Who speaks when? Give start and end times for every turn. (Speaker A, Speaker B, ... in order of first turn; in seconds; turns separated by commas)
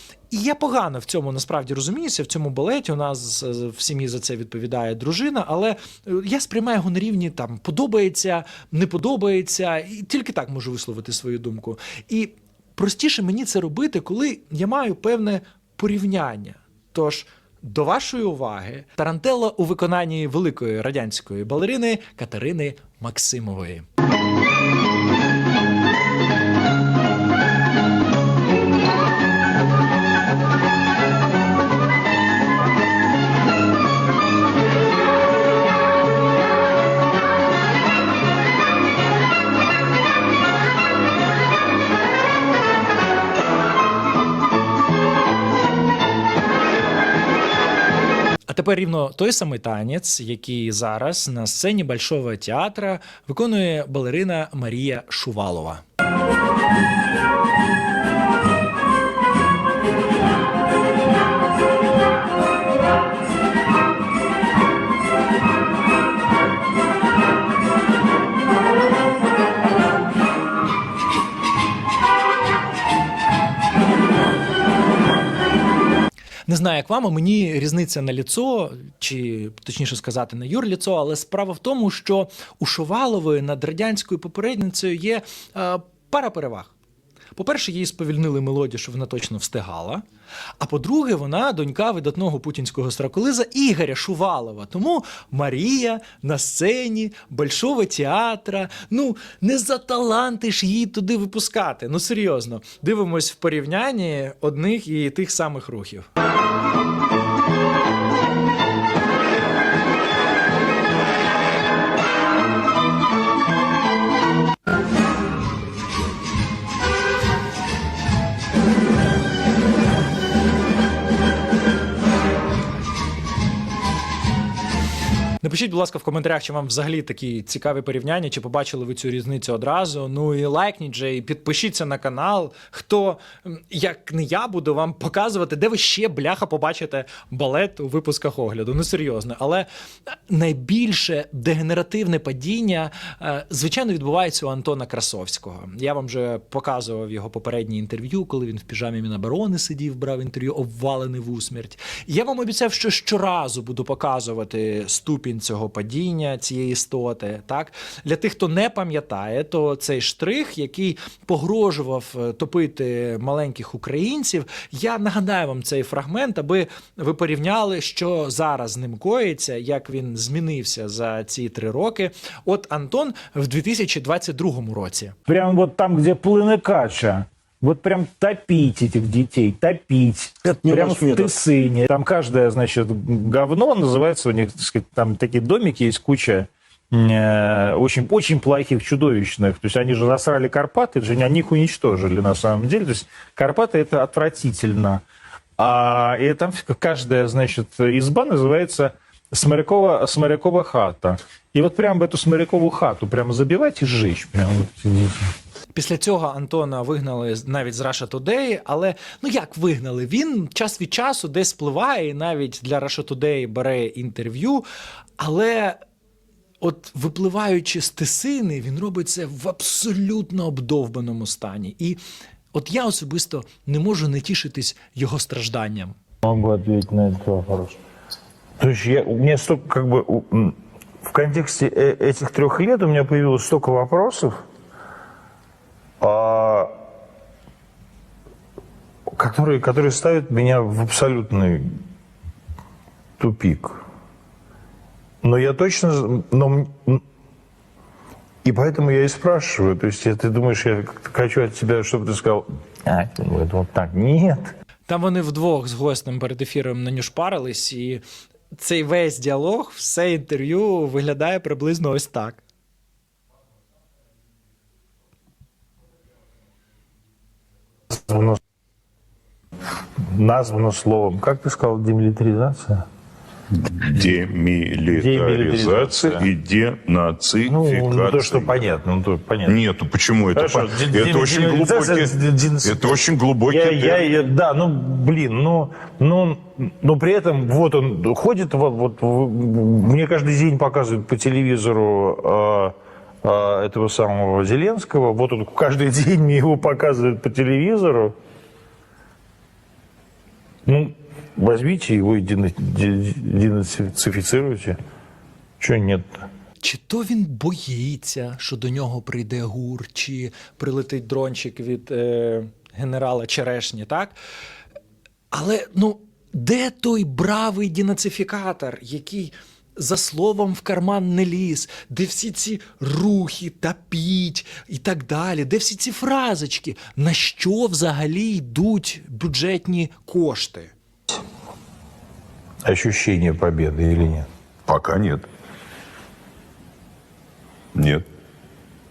Speaker A: 0.3-23.9, Speaker A: 48.5-55.8, Speaker A: 76.5-86.7, Speaker A: 87.3-90.0, Speaker A: 90.6-106.1, Speaker A: 125.4-139.7, Speaker A: 140.3-175.2, Speaker B: 175.3-195.0, Speaker B: 195.6-205.2, Speaker A: 205.7-214.7, Speaker A: 215.2-215.8, Speaker A: 216.6-222.0, Speaker A: 222.5-226.0, Speaker B: 226.2-227.8, Speaker B: 228.6-234.4, Speaker B: 236.0-236.7, Speaker B: 239.1-241.7, Speaker B: 243.2-243.8, Speaker B: 245.2-247.0, Speaker B: 248.4-254.5, Speaker A: 254.9-258.0, Speaker A: 258.6-262.4, Speaker B: 267.9-268.4, Speaker B: 270.1-272.8, Speaker C: 273.6-278.6, Speaker B: 274.9-276.3, Speaker B: 277.4-279.6, Speaker C: 279.5-284.0, Speaker B: 280.4-298.1, Speaker B: 300.7-304.8, Speaker B: 305.6-306.2, Speaker A: 306.6-314.2, Speaker A: 315.3-330.7, Speaker B: 332.6-334.3, Speaker C: 334.7-335.2, Speaker C: 337.8-338.0